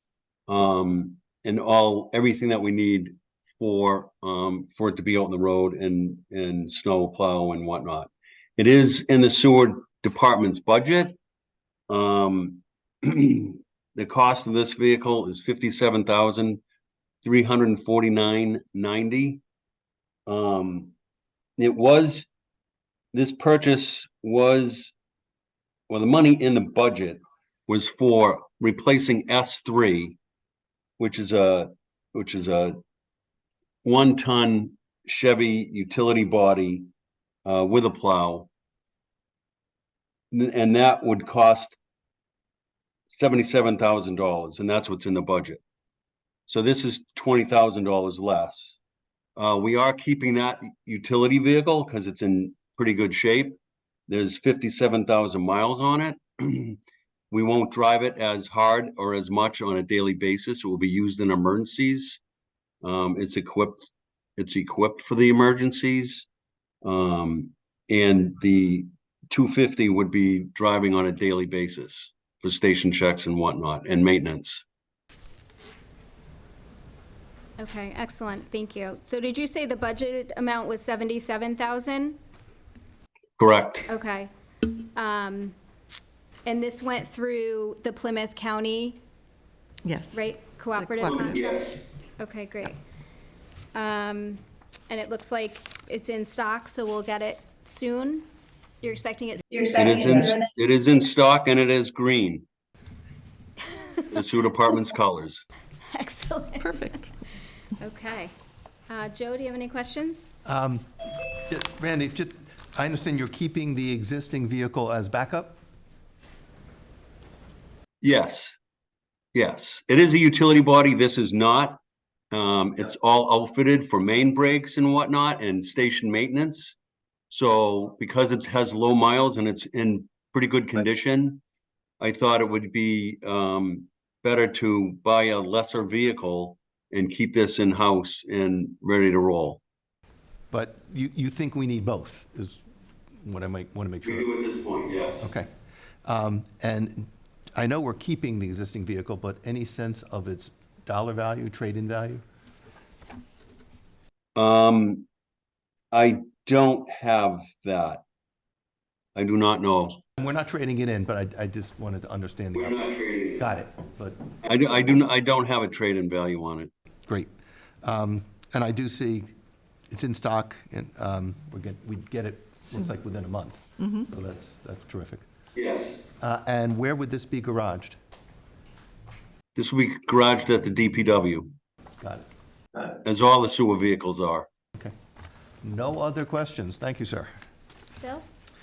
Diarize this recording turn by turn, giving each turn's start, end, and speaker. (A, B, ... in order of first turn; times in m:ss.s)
0:00.5-0:11.2 A
0:11.9-0:16.6 A
0:17.2-0:19.4 A
0:20.3-0:20.9 A
0:21.6-0:22.3 A
0:23.1-0:24.9 A
0:25.9-0:30.2 A
0:31.0-0:32.8 A
0:33.8-0:36.9 A
0:37.4-0:38.5 A
0:40.3-0:41.8 A
0:43.1-0:45.6 A
0:46.5-0:48.8 A
0:49.4-0:56.8 A
0:57.3-1:02.2 A
1:02.8-1:06.3 A
1:06.8-1:14.6 A
1:17.6-1:22.2 B
1:23.4-1:23.9 A
1:23.9-1:24.3 B
1:24.9-1:25.5 B
1:26.4-1:29.0 B
1:29.8-1:31.4 C
1:30.1-1:32.8 B
1:31.0-1:31.7 A
1:33.7-1:38.3 B
1:38.8-1:40.5 B
1:39.7-1:42.4 A
1:44.1-1:45.4 A
1:45.9-1:47.0 B
1:46.6-1:47.1 C
1:47.8-1:48.3 B
1:48.9-1:50.3 B
1:50.4-1:50.8 D
1:51.5-1:55.6 D
1:58.0-1:58.6 A
1:59.3-2:01.8 A
2:02.3-2:06.8 A
2:07.3-2:11.4 A
2:12.0-2:19.6 A
2:20.5-2:22.6 D
2:23.2-2:24.3 D
2:24.0-2:25.2 A
2:25.2-2:25.5 D
2:26.0-2:32.2 D
2:34.4-2:35.1 A
2:35.9-2:38.0 A
2:39.1-2:40.0 A
2:40.2-2:42.8 D
2:42.5-2:43.5 A
2:43.4-2:44.2 D
2:44.4-2:46.7 A
2:47.8-2:49.3 D
2:49.9-2:55.2 D
2:55.6-2:56.0 A
2:56.2-2:58.0 D
2:59.6-3:01.5 A
3:02.0-3:02.3 D
3:03.0-3:04.5 A
3:05.6-3:07.3 D
3:08.0-3:08.3 B